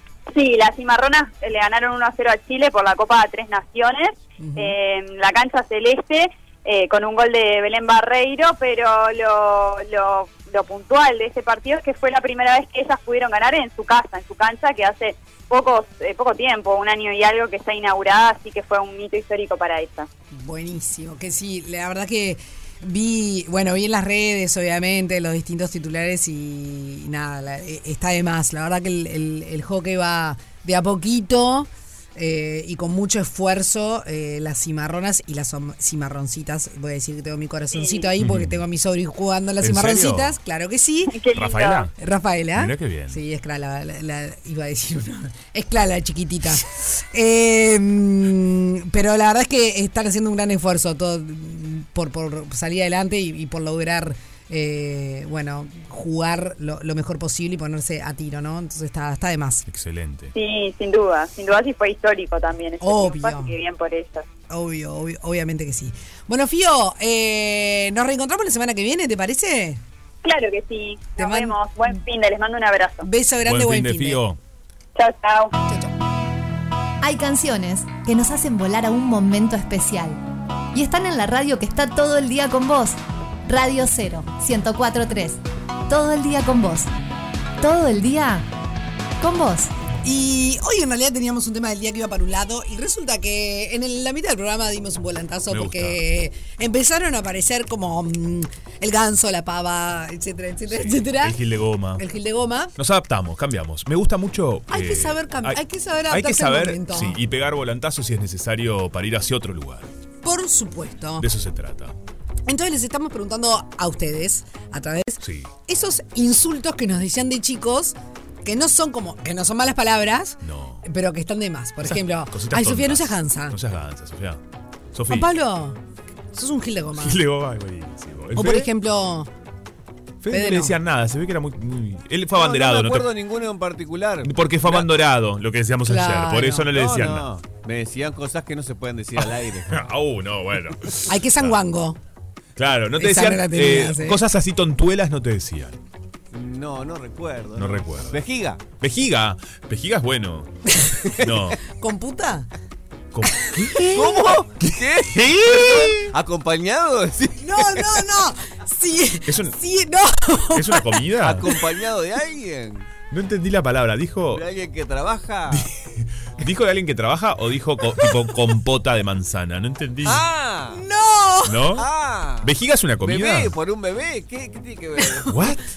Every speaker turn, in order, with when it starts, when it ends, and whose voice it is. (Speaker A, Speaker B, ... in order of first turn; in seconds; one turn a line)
Speaker A: 0.3-20.1
Speaker B: 4.4-4.8
Speaker B: 20.3-41.2
Speaker A: 37.7-38.1
Speaker C: 38.2-38.6
Speaker C: 39.6-40.4
Speaker A: 41.1-41.9
Speaker C: 41.3-41.9
Speaker B: 42.0-59.6
Speaker C: 42.5-43.2
Speaker C: 59.7-60.3
Speaker A: 60.4-64.3
Speaker B: 62.8-63.5
Speaker B: 64.5-69.8
Speaker A: 70.2-73.1
Speaker B: 71.2-71.6
Speaker B: 73.0-74.2
Speaker C: 73.5-74.4
Speaker A: 75.0-75.5
Speaker B: 75.7-75.9
Speaker D: 77.0-80.2
Speaker D: 80.7-86.9
Speaker D: 87.6-88.5
Speaker D: 89.2-89.7
Speaker B: 90.0-101.4
Speaker C: 95.5-96.0
Speaker C: 100.7-102.0
Speaker B: 102.0-102.8
Speaker C: 102.8-109.9
Speaker B: 104.7-107.2
Speaker B: 110.2-111.3
Speaker C: 111.2-112.0
Speaker B: 112.5-123.6
Speaker C: 115.2-115.5
Speaker C: 120.4-120.8
Speaker C: 121.8-124.4
Speaker C: 124.9-125.3
Speaker B: 125.1-125.8
Speaker B: 126.3-127.2
Speaker C: 127.0-128.7
Speaker B: 128.3-129.3
Speaker C: 130.2-133.1
Speaker B: 130.3-130.8
Speaker E: 132.3-134.9
Speaker C: 134.2-137.3
Speaker B: 135.9-136.7
Speaker E: 136.7-139.9
Speaker C: 139.7-141.6
Speaker B: 141.1-142.0
Speaker C: 142.6-145.8
Speaker B: 143.0-144.2
Speaker E: 146.3-148.6
Speaker C: 147.6-150.5
Speaker C: 151.1-151.6
Speaker B: 151.7-152.5
Speaker C: 153.1-153.9
Speaker B: 153.7-154.3
Speaker E: 153.8-158.1
Speaker B: 157.4-161.0
Speaker C: 159.3-159.6
Speaker C: 160.5-161.5
Speaker E: 161.2-162.9
Speaker C: 163.1-164.4
Speaker E: 164.3-165.7
Speaker C: 165.5-170.2
Speaker E: 170.0-170.8
Speaker B: 170.7-171.8
Speaker C: 171.5-171.9
Speaker E: 171.8-175.4
Speaker C: 172.4-173.6
Speaker B: 175.2-175.5
Speaker C: 175.3-175.6